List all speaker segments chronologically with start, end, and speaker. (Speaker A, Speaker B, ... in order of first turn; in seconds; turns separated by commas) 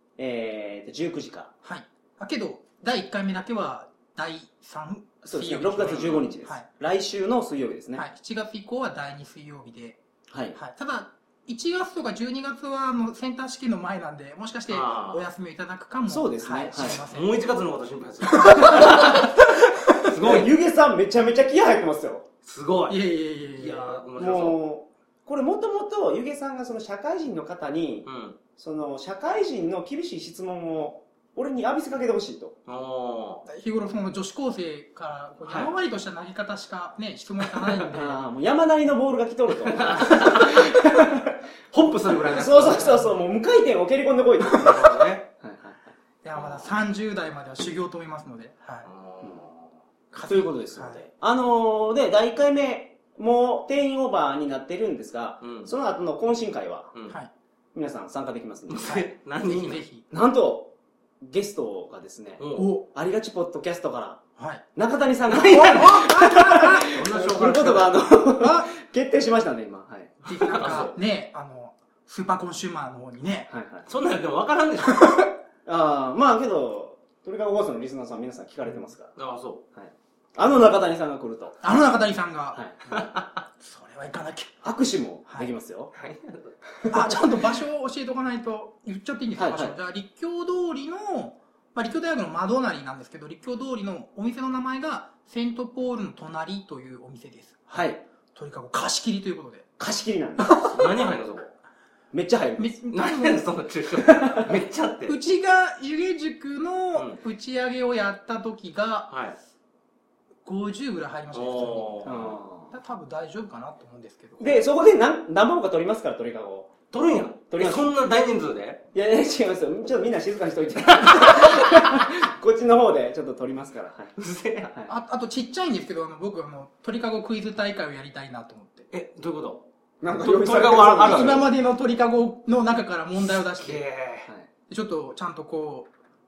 Speaker A: 0.2-1.5, Speaker B: 1.6-6.7, Speaker A: 5.2-8.0, Speaker C: 5.8-6.3, Speaker B: 8.0-10.0, Speaker A: 10.3-10.6, Speaker B: 10.5-17.4, Speaker C: 14.7-15.3, Speaker A: 16.1-17.0, Speaker C: 16.9-19.4, Speaker B: 18.2-20.1, Speaker A: 18.6-19.3, Speaker C: 20.0-20.5, Speaker A: 20.1-22.3, Speaker C: 22.4-24.6, Speaker B: 22.9-24.0, Speaker A: 24.2-32.6, Speaker C: 28.1-28.4, Speaker C: 32.7-33.5, Speaker B: 33.5-38.1, Speaker C: 35.4-35.7, Speaker A: 37.9-41.4, Speaker C: 39.7-40.7, Speaker C: 41.7-42.9, Speaker A: 42.3-45.9, Speaker B: 42.6-43.2, Speaker C: 44.5-45.3, Speaker B: 46.2-48.9, Speaker C: 46.3-46.7, Speaker C: 48.9-49.7, Speaker B: 50.1-51.0, Speaker A: 50.2-56.9, Speaker C: 55.4-55.7, Speaker A: 57.7-59.0, Speaker C: 58.7-59.8, Speaker B: 58.9-60.1, Speaker A: 60.1-64.2, Speaker C: 62.4-62.7, Speaker B: 62.5-62.9, Speaker B: 64.4-64.6, Speaker A: 64.8-70.2, Speaker C: 65.3-66.1, Speaker B: 65.5-67.0, Speaker C: 66.9-68.1, Speaker B: 68.3-68.7, Speaker B: 70.2-73.5, Speaker C: 70.3-70.9, Speaker A: 73.5-73.9, Speaker C: 73.9-75.2, Speaker B: 75.0-75.3, Speaker A: 75.7-79.2, Speaker C: 79.2-79.6, Speaker A: 79.8-81.6, Speaker B: 81.6-82.6, Speaker C: 82.9-83.3, Speaker B: 83.6-84.5, Speaker A: 84.6-85.9, Speaker C: 85.9-86.6, Speaker A: 86.8-87.2, Speaker B: 86.9-97.7, Speaker A: 89.4-89.8, Speaker A: 97.7-98.0, Speaker B: 98.3-99.7, Speaker A: 99.8-100.6, Speaker B: 100.4-100.8, Speaker C: 100.7-101.5, Speaker A: 102.1-102.8, Speaker B: 102.6-103.5, Speaker C: 102.9-105.2, Speaker A: 104.0-104.5, Speaker B: 105.1-109.1, Speaker C: 109.1-109.4, Speaker B: 110.4-114.6, Speaker C: 111.3-112.4, Speaker A: 112.0-112.7, Speaker A: 114.4-116.8, Speaker C: 116.9-118.8, Speaker A: 117.5-117.9, Speaker A: 118.9-124.2, Speaker C: 121.1-121.8, Speaker C: 124.2-124.7, Speaker B: 124.9-128.9, Speaker C: 128.9-129.6, Speaker A: 130.0-131.5, Speaker C: 130.2-131.5, Speaker B: 131.0-133.8, Speaker C: 133.6-134.3, Speaker B: 134.7-135.9